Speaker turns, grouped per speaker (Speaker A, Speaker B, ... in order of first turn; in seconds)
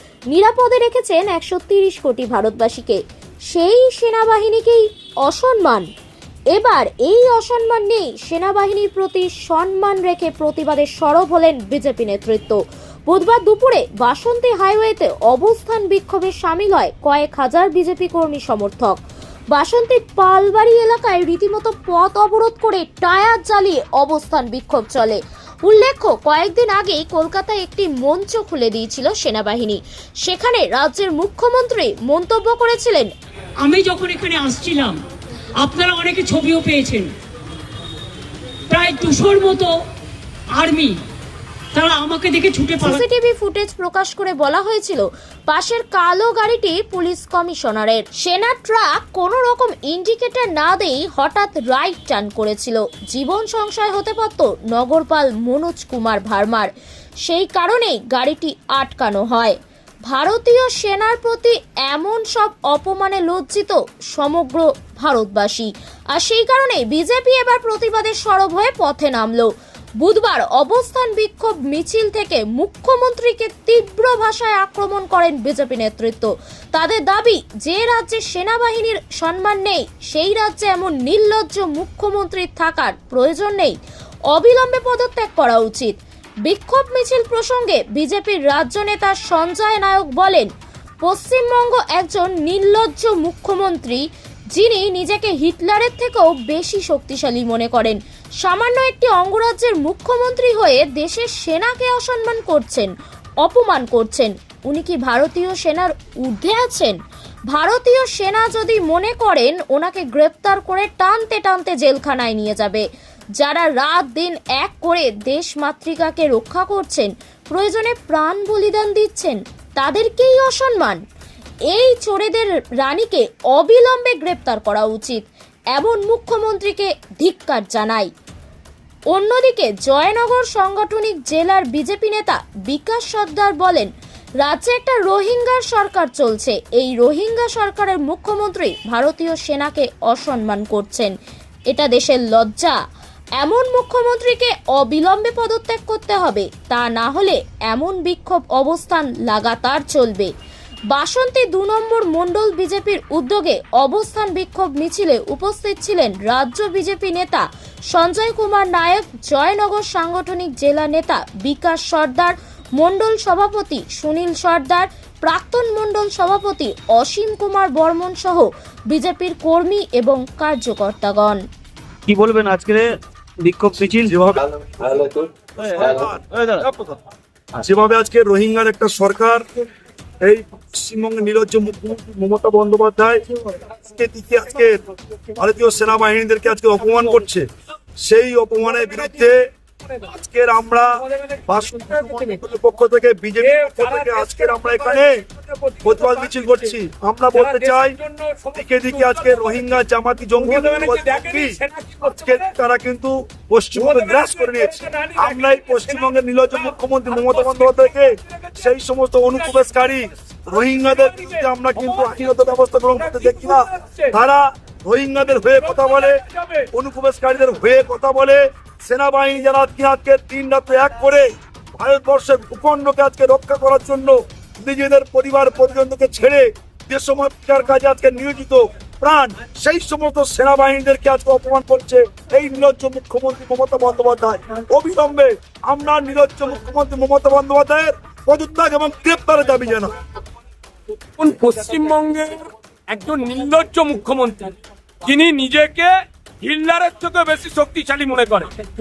Speaker A: 0.3-3.0, 3.5-5.9, 6.5-19.0, 19.5-33.1, 42.8-56.7, 57.2-59.5, 60.1-69.5, 70.0-83.8, 84.3-85.9, 86.5-90.5, 91.0-94.0, 94.5-102.9, 103.4-107.0, 107.5-112.8, 113.4-121.0, 121.7-125.2, 125.7-128.1, 129.1-133.9, 134.4-141.1, 141.7-142.8, 143.4-150.3, 150.9-171.4
Speaker B: 33.6-35.0, 35.6-37.1, 38.7-39.7, 40.5-41.0, 41.7-43.0
Speaker C: 172.1-176.9
Speaker D: 174.0-174.4, 175.7-176.7, 177.6-179.4, 180.2-183.2, 183.9-184.8, 185.4-187.4, 188.0-189.4, 190.1-195.2, 195.8-197.9, 198.5-216.2, 216.7-239.9
Speaker E: 188.8-189.3, 191.0-192.4, 193.4-196.7, 197.3-199.8, 200.4-202.5, 203.7-208.7, 209.3-209.7, 210.8-212.2, 212.9-214.1, 215.5-216.7, 241.2-245.9, 246.4-248.5